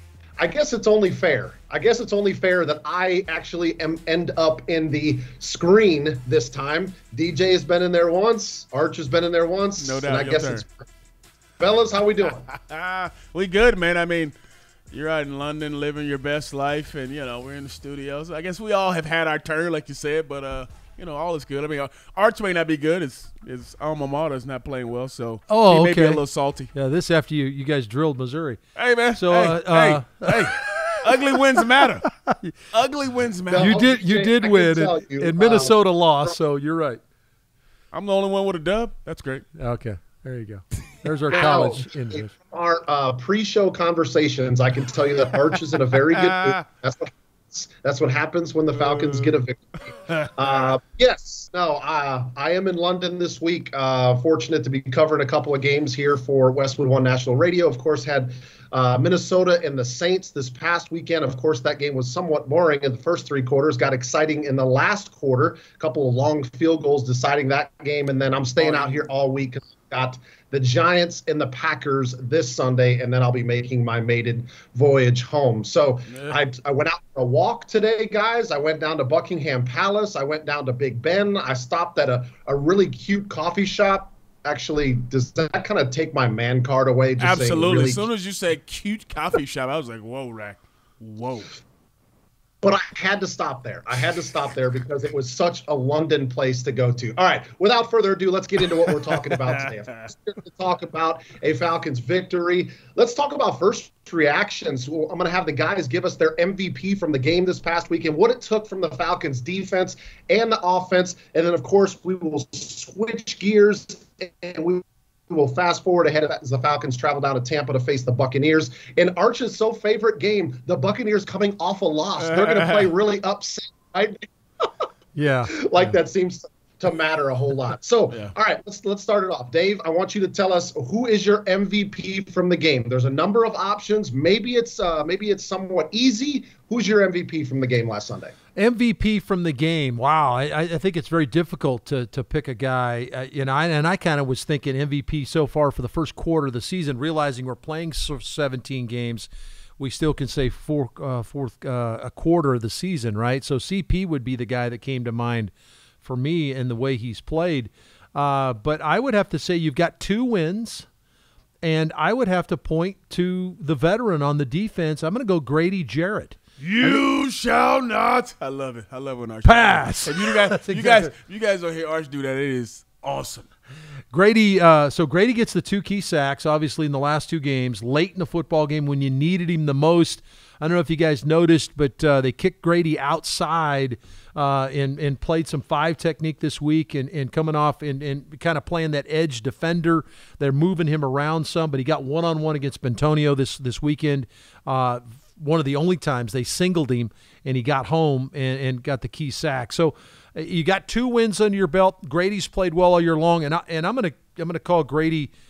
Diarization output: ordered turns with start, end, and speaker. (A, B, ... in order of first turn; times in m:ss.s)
0:00.4-0:10.9 A
0:09.8-0:10.6 B
0:11.6-0:12.4 A
0:12.5-0:14.3 B
0:14.9-0:26.7 B
0:25.5-0:26.2 C
0:26.7-0:28.6 C
0:28.8-0:32.0 B
0:29.2-0:32.6 C
0:32.7-0:33.8 B
0:33.5-0:36.3 A
0:33.6-0:37.0 C
0:37.9-0:39.4 B
0:39.6-0:42.3 C
0:41.3-1:28.0 A
0:48.8-0:49.3 B
0:50.1-0:50.6 B
1:08.6-1:09.0 B
1:16.1-1:16.4 B
1:27.2-1:31.5 B
1:32.6-2:04.7 A
1:38.9-1:39.9 B
2:02.3-2:02.9 B
2:05.1-2:05.5 C
2:05.5-2:18.3 A
2:18.6-2:35.5 C
2:36.0-2:40.9 C
2:41.6-2:47.0 C
2:46.6-2:53.4 B
2:49.4-2:51.1 C
2:54.1-3:25.3 C